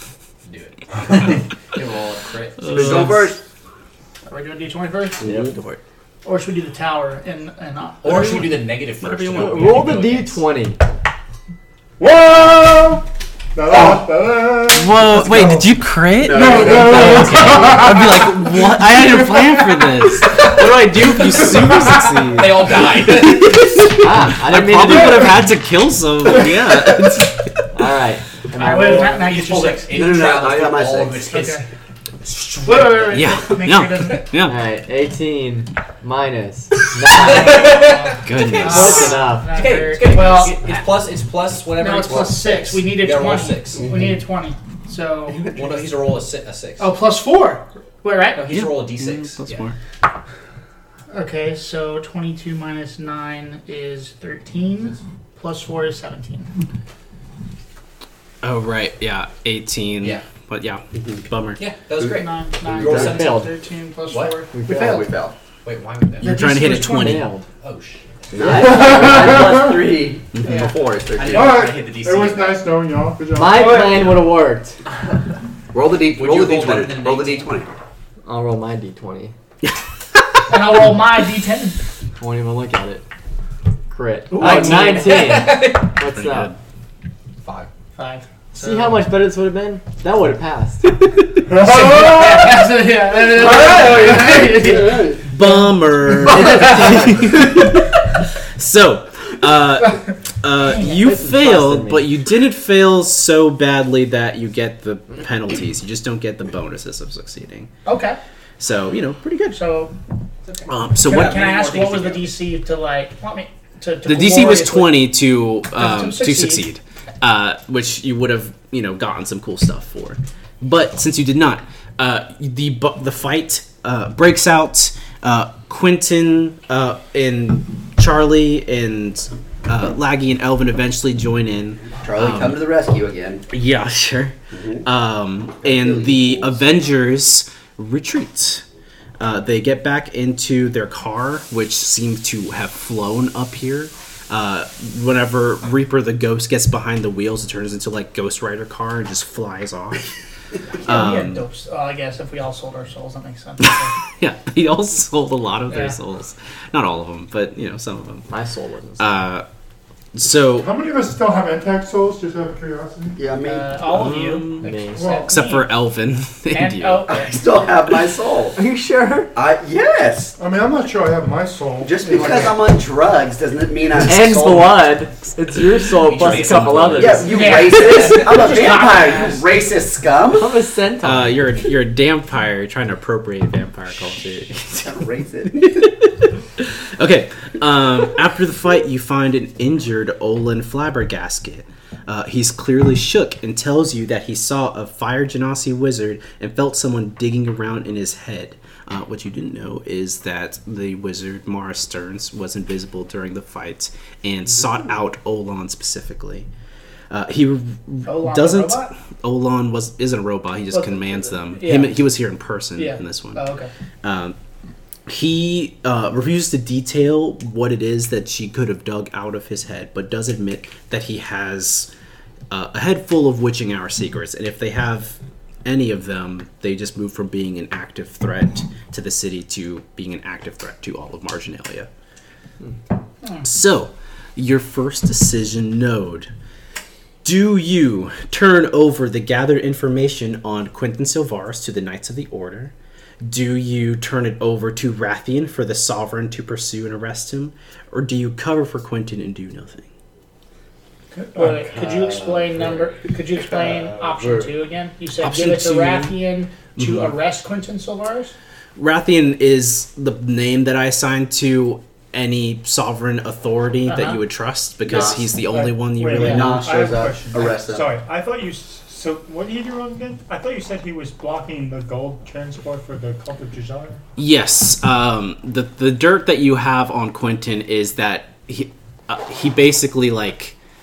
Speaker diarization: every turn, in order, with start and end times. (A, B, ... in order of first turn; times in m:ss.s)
0:00.4-0:03.2 A
0:02.7-0:03.2 B
0:02.7-0:03.4 C
0:04.3-0:05.2 D
0:05.2-0:05.5 E
0:06.2-0:08.6 D
0:08.0-0:10.4 A
0:09.0-0:09.8 B
0:09.3-0:10.8 E
0:12.0-0:15.7 F
0:14.7-0:27.5 B
0:16.2-0:17.4 C
0:16.3-0:19.8 F
0:16.5-0:17.9 E
0:20.3-0:20.7 A
0:21.4-0:23.8 A
0:23.8-0:25.5 E
0:27.7-0:29.4 E
0:28.6-0:29.9 D
0:29.0-0:31.6 A
0:29.9-0:31.3 C
0:31.3-0:31.6 D
0:32.3-0:32.9 A
0:32.6-0:34.3 D
0:33.1-0:34.6 B
0:34.4-0:38.0 E
0:37.1-0:40.8 D
0:37.1-0:43.9 A
0:38.2-0:39.2 B
0:38.6-0:39.6 E
0:41.8-0:45.5 D
0:43.8-0:44.1 C
0:45.4-0:46.9 A
0:46.8-0:48.5 D
0:48.4-0:49.6 A
0:48.5-0:49.8 B
0:51.1-0:56.5 D
0:58.4-1:01.6 B
1:01.6-1:03.5 A
1:02.0-1:05.0 D
1:02.7-1:03.1 C
1:02.9-1:03.5 E
1:04.1-1:04.4 A
1:04.5-1:05.1 E
1:04.7-1:05.4 C
1:05.6-1:06.3 A
1:06.2-1:07.3 D
1:06.2-1:07.3 B
1:06.9-1:07.5 E
1:07.6-1:08.3 A
1:08.3-1:11.6 C
1:08.4-1:10.0 E
1:11.2-1:12.7 A
1:11.3-1:14.0 F
1:13.3-1:14.8 E
1:15.7-1:17.7 C
1:16.1-1:17.5 A
1:18.2-1:19.3 E
1:20.5-1:21.8 D
1:22.2-1:23.0 E
1:23.9-1:26.5 E
1:24.4-1:25.1 F
1:24.5-1:26.0 A
1:26.0-1:26.6 B
1:27.4-1:27.7 A
1:28.0-1:29.0 D
1:28.5-1:31.1 E
1:31.5-1:32.6 F
1:31.6-1:35.0 D
1:33.2-1:35.0 E
1:34.6-1:35.2 C
1:35.3-1:47.7 B
1:36.5-1:36.8 E
1:40.9-1:42.1 E
1:47.8-1:48.2 D
1:48.6-1:49.6 B
1:49.5-1:49.9 D
1:50.5-1:52.3 A
1:50.7-1:51.5 B
1:51.0-1:55.1 D
1:54.0-2:12.6 B
1:55.8-1:56.7 D
2:12.0-2:13.5 C
2:13.5-2:18.6 B
2:14.5-2:14.9 C
2:15.6-2:16.6 C
2:19.2-2:30.0 B
2:30.8-2:31.4 B
2:30.8-2:33.9 D
2:33.7-2:38.3 B
2:35.7-2:36.0 D
2:38.3-2:39.1 E
2:39.0-2:39.5 B
2:40.2-2:40.7 B
2:40.6-2:43.2 F
2:43.2-2:43.8 C
2:43.4-2:45.7 D
2:43.9-2:44.7 B
2:44.6-2:45.2 E
2:45.0-2:45.3 F
2:45.3-2:47.1 B
2:46.5-2:47.4 D
2:47.1-2:48.6 C
2:48.6-2:49.3 E
2:49.4-2:50.4 C
2:50.4-2:52.6 F
2:51.8-2:54.8 C
2:54.0-2:57.5 E
2:55.8-2:58.2 A
2:57.0-3:00.6 C
2:57.2-2:59.4 D
3:00.3-3:01.4 E
3:01.0-3:26.5 B
3:04.8-3:05.9 C
3:27.1-3:33.4 B
3:28.1-3:28.9 D
3:30.7-3:32.0 D
3:32.8-3:33.7 D
3:34.0-3:34.4 B
3:35.1-3:41.9 B
3:42.5-3:51.9 B
3:53.4-3:56.3 B
3:57.2-4:09.9 B
4:11.1-4:11.5 F
4:11.4-4:18.3 D
4:15.2-4:16.2 B
4:16.8-4:17.1 B
4:18.8-4:26.7 B
4:23.9-4:24.2 D
4:24.8-4:25.4 C
4:25.1-4:34.0 F
4:26.1-4:28.0 C
4:26.2-4:26.4 D
4:34.2-4:40.6 B